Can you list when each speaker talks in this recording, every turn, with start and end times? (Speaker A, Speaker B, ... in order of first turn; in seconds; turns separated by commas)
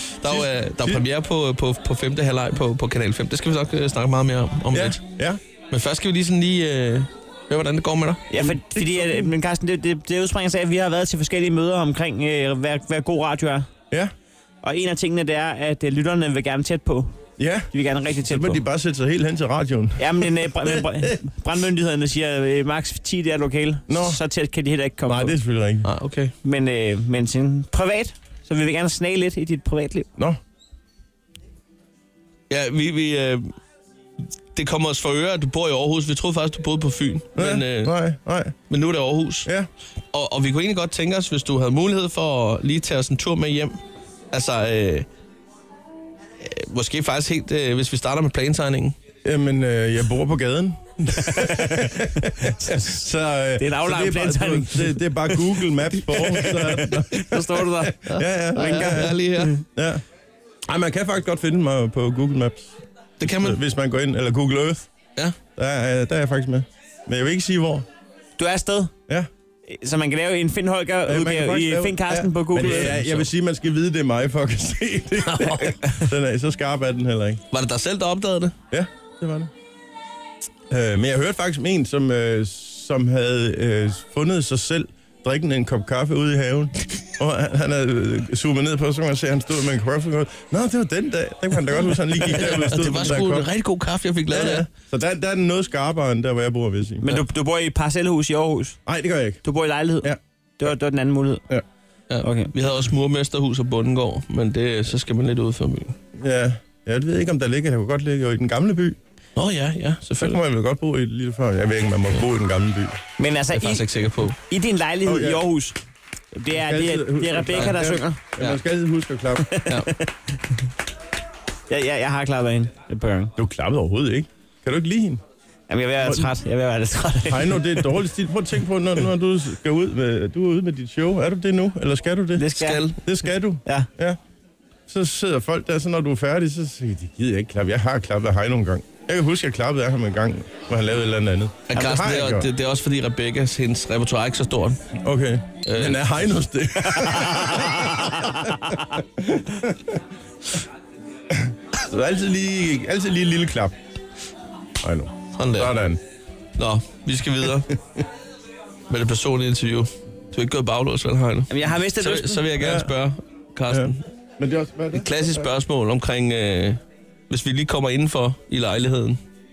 Speaker A: 0.2-5.0, Speaker B: 0.2-1.1, Speaker B: 4.7-5.4, Speaker A: 5.7-8.3, Speaker C: 8.3-13.7, Speaker B: 8.3-9.3, Speaker C: 14.6-17.1, Speaker B: 17.4-21.1, Speaker C: 17.7-18.6, Speaker C: 20.0-25.4, Speaker B: 23.9-24.2, Speaker B: 25.1-25.9, Speaker A: 25.8-26.3, Speaker C: 26.4-30.1, Speaker A: 32.5-33.5, Speaker A: 34.5-37.9, Speaker B: 37.4-38.5, Speaker A: 38.7-39.5, Speaker A: 40.1-43.8, Speaker A: 44.3-45.1, Speaker A: 46.4-49.0, Speaker B: 49.2-60.0, Speaker C: 51.2-53.1, Speaker C: 53.6-55.0, Speaker A: 56.1-56.5, Speaker C: 56.3-57.9, Speaker A: 58.0-59.5, Speaker C: 58.5-59.6, Speaker B: 60.7-62.8, Speaker A: 63.2-63.6, Speaker B: 63.4-64.9, Speaker B: 65.5-67.8, Speaker C: 68.4-68.9, Speaker C: 69.7-73.0, Speaker B: 71.0-77.4, Speaker A: 72.6-73.2, Speaker A: 75.2-76.0, Speaker A: 77.5-78.5, Speaker B: 78.7-79.5, Speaker B: 80.7-93.5, Speaker A: 92.3-94.7, Speaker B: 94.3-97.2, Speaker C: 97.0-98.8, Speaker B: 98.8-99.4, Speaker C: 99.4-101.4, Speaker A: 102.1-105.9, Speaker C: 102.2-102.5, Speaker B: 106.1-109.0, Speaker A: 109.3-110.4, Speaker B: 110.2-113.0, Speaker C: 113.2-115.8, Speaker A: 113.5-114.3, Speaker B: 115.0-115.5, Speaker C: 116.3-118.2, Speaker B: 116.5-119.6, Speaker C: 119.4-120.1, Speaker C: 121.7-123.3, Speaker B: 123.3-125.2, Speaker C: 125.7-127.9, Speaker B: 126.0-126.3, Speaker B: 127.3-134.2, Speaker C: 132.3-132.8, Speaker A: 132.6-133.0, Speaker C: 133.6-133.9, Speaker B: 134.9-142.5, Speaker A: 141.7-144.8, Speaker B: 145.0-150.0, Speaker A: 145.6-146.3, Speaker C: 146.8-148.8, Speaker B: 151.3-153.7, Speaker B: 154.8-156.0, Speaker A: 155.3-155.7, Speaker A: 156.6-157.8, Speaker A: 158.9-164.1, Speaker C: 161.5-162.5, Speaker B: 162.6-162.9, Speaker B: 163.7-165.5, Speaker A: 164.9-169.2